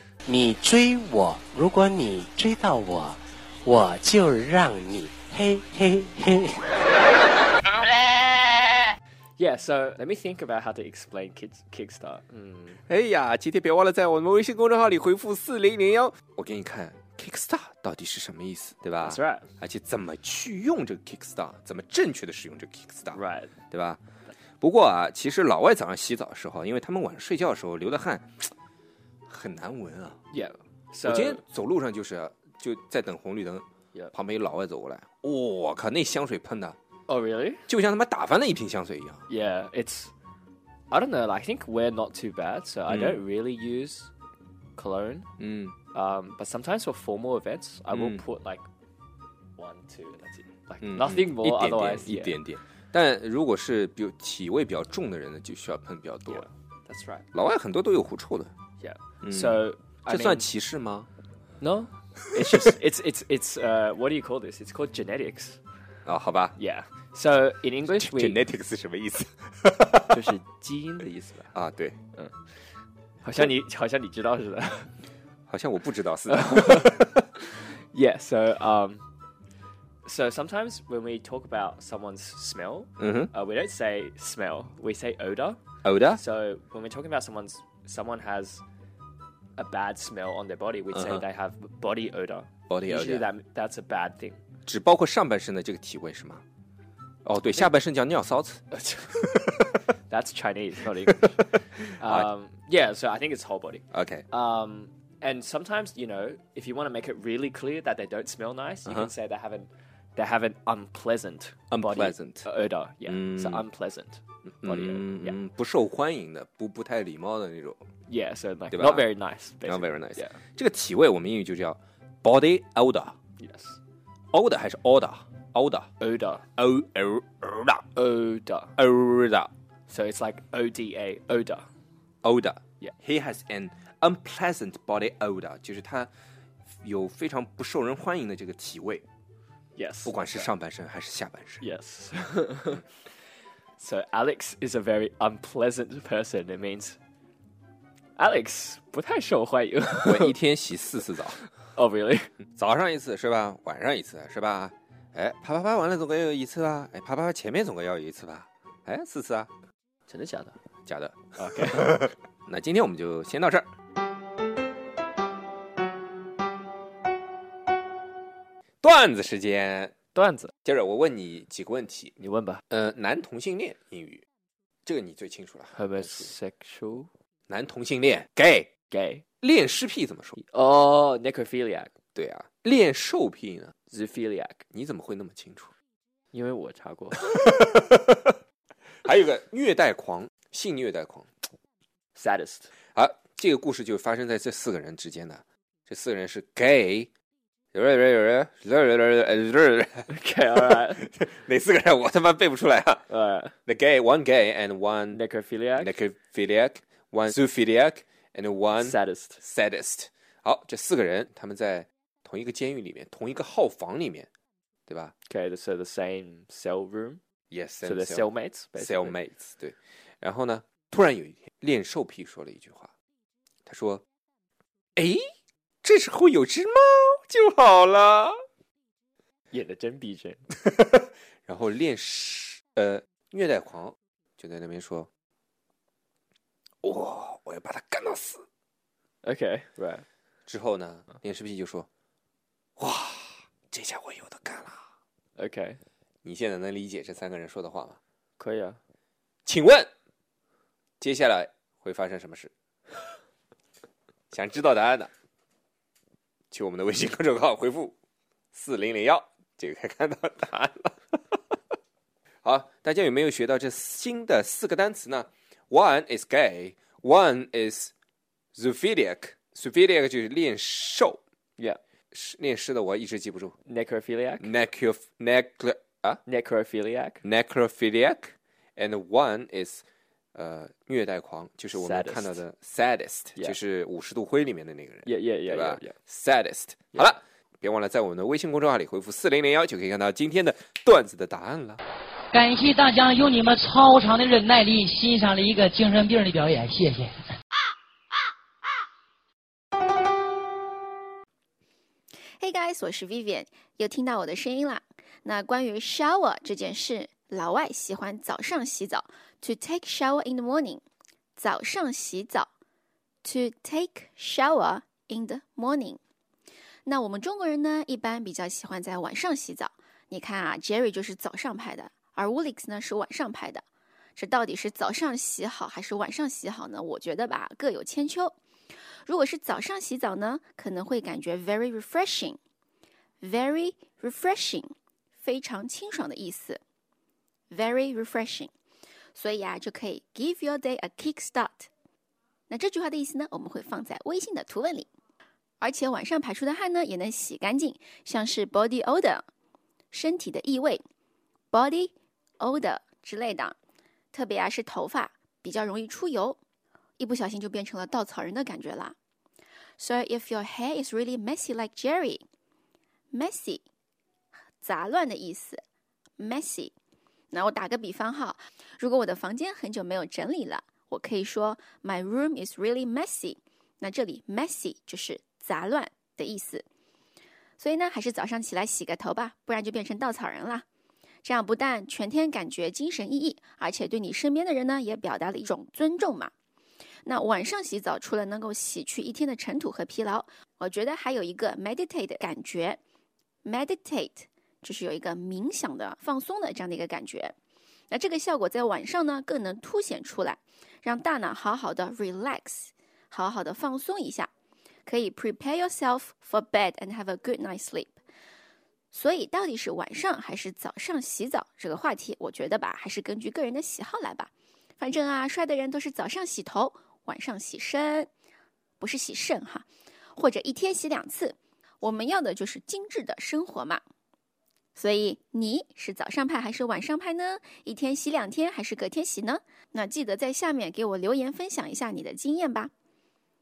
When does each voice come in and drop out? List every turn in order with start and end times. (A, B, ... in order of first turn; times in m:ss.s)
0:00.3-0:06.6 A
0:09.4-0:12.8 B
0:12.8-0:23.2 C
0:19.0-0:19.5 B
0:23.1-0:23.6 B
0:23.7-0:24.0 C
0:24.6-0:28.5 C
0:29.3-0:30.2 C
0:30.3-0:31.4 B
0:31.0-0:36.8 C
0:37.1-0:37.6 B
0:37.7-0:39.2 C
0:39.3-0:40.1 B
0:40.9-0:44.1 B
0:42.9-0:43.2 C
0:44.8-0:45.3 B
0:45.4-0:45.8 C
0:45.9-0:48.7 B
0:47.9-0:48.2 C
0:49.6-0:52.4 B
0:50.8-0:56.5 C
0:56.3-0:57.3 B
0:57.3-0:58.5 C
0:58.8-1:00.5 B
0:59.2-1:01.1 C
1:01.6-1:05.6 B
1:06.0-1:06.6 C
1:06.6-1:08.4 B
1:08.0-1:10.2 C
1:10.1-1:11.6 B
1:11.5-1:12.0 C
1:13.2-1:14.9 B
1:15.5-1:17.1 C
1:16.3-1:19.0 B
1:20.0-1:25.6 B
1:23.0-1:23.3 C
1:25.8-1:26.2 C
1:26.1-1:28.6 B
1:29.6-1:34.4 B
1:30.9-1:31.2 C
1:32.7-1:33.3 C
1:34.7-1:36.4 C
1:37.2-1:38.6 C
1:38.7-1:55.4 B
1:42.0-1:42.3 C
1:43.9-1:44.3 C
1:51.7-1:52.5 C
1:53.1-1:53.6 C
1:54.6-1:57.8 C
1:58.1-2:00.4 B
1:58.7-1:59.0 C
1:59.6-2:03.2 C
2:03.4-2:03.8 B
2:04.3-2:05.9 C
2:06.0-2:06.5 B
2:06.6-2:07.8 C
2:08.0-2:08.8 B
2:08.8-2:09.5 C
2:09.9-2:11.7 B
2:12.2-2:16.1 C
2:16.8-2:19.0 C
2:19.8-2:20.5 B
2:20.0-2:21.6 C
2:21.6-2:22.8 B
2:23.8-2:27.0 B
2:28.2-2:30.4 B
2:30.0-2:31.4 C
2:31.7-2:32.3 B
2:32.6-2:39.5 C
2:40.1-2:40.6 B
2:40.9-2:43.7 C
2:41.4-2:42.1 B
2:48.8-2:50.0 C
2:50.2-2:50.5 B
2:50.6-2:52.2 C
2:52.2-2:52.6 B
2:52.7-2:54.2 C
2:54.9-2:56.3 C
2:55.7-2:57.1 B
2:57.5-2:58.7 C
2:58.9-2:59.2 B
2:59.4-3:00.4 C
3:00.4-3:01.9 B
3:02.2-3:03.7 C
3:03.9-3:04.6 B
3:04.7-3:05.7 C
3:06.3-3:07.4 B
3:07.3-3:08.3 C
3:09.0-3:11.4 C
3:12.2-3:12.7 B
3:13.0-3:17.1 C
3:17.7-3:23.1 C
3:20.1-3:21.0 B
3:23.1-3:23.5 B
3:23.7-3:25.2 C
3:25.1-3:26.0 B
3:25.8-3:34.3 C
3:28.8-3:29.4 B
3:34.9-3:35.1 C
3:35.3-3:37.2 B
3:37.5-3:42.9 C
3:37.8-3:39.2 B
3:43.7-3:44.0 C
3:45.0-3:45.2 C
3:45.8-3:48.4 C
3:49.5-3:50.4 B
3:50.7-3:55.1 C
3:56.8-3:58.4 C
3:59.2-4:00.0 B
4:00.5-4:01.9 C
4:02.8-4:04.8 C
4:05.4-4:05.8 B
4:06.2-4:08.0 C
4:08.4-4:08.8 B
4:09.5-4:09.9 C
4:11.0-4:12.5 C
4:14.3-4:15.1 C
4:16.5-4:17.9 C
4:18.5-4:20.9 C
4:22.4-4:27.9 C
4:28.6-4:31.2 C
4:32.1-4:33.6 C
4:33.7-4:34.5 B
4:34.4-4:36.2 C
4:36.3-4:37.2 B
4:37.2-4:39.8 C
4:40.4-4:51.8 C
4:41.7-4:42.4 B
4:45.0-4:46.0 B
4:52.3-4:57.2 D
5:02.4-5:10.8 E
5:11.4-5:12.5 E
5:13.2-5:16.0 E
5:16.9-5:23.6 E
5:24.2-5:28.4 E
5:29.0-5:32.4 E
5:33.2-5:36.6 E
5:37.5-5:38.5 E
5:39.2-5:41.7 E
5:42.5-5:44.9 E
5:45.6-5:49.2 E
5:49.9-5:50.8 E
5:51.5-5:53.6 E
5:54.1-5:56.4 E
5:57.0-5:59.0 E
5:59.8-6:02.2 E
6:03.1-6:03.6 E
6:04.6-6:05.6 E
6:06.2-6:06.7 E
6:07.3-6:16.7 E
6:17.6-6:20.6 E
6:21.2-6:26.3 E
6:27.1-6:32.8 E
6:33.4-6:37.4 E
6:37.9-6:44.3 E
6:44.9-6:47.9 E
6:48.9-6:58.1 E
6:58.8-7:03.8 E
7:04.8-7:12.7 E